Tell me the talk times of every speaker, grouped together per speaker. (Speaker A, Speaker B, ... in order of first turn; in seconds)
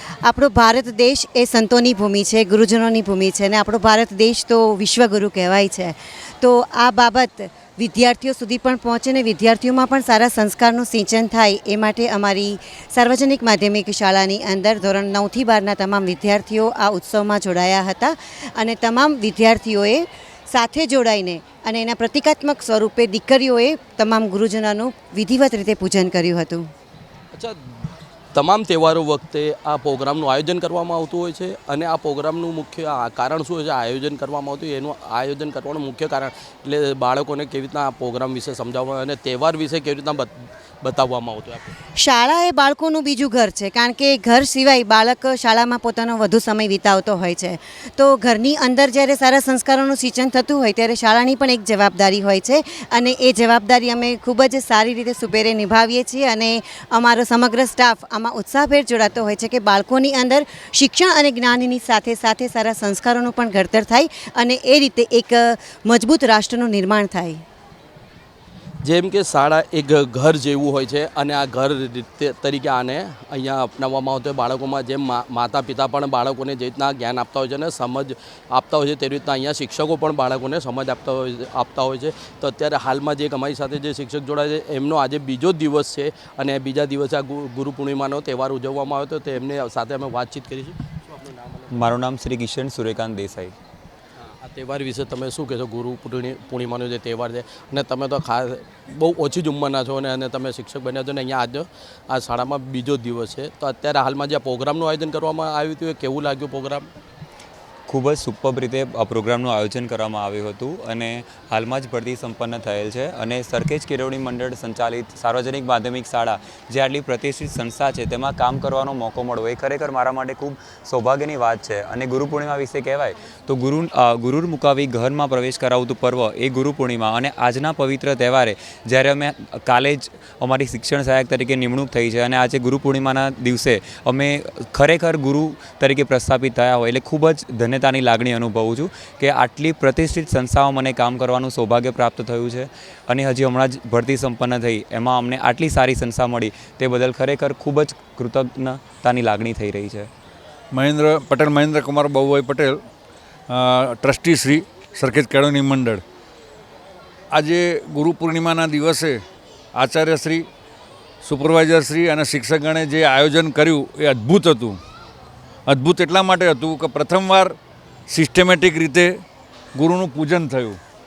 Speaker A: 0.2-26.6, 42.0-67.4
Speaker B: 28.3-40.3, 40.8-41.7, 68.8-91.8, 94.2-106.9
Speaker C: 91.7-93.5, 107.9-150.1
Speaker D: 150.7-152.8, 153.5-156.0, 157.3-159.2, 159.8-160.5, 161.2-164.8, 165.7-167.6, 168.1-169.1, 169.8-170.8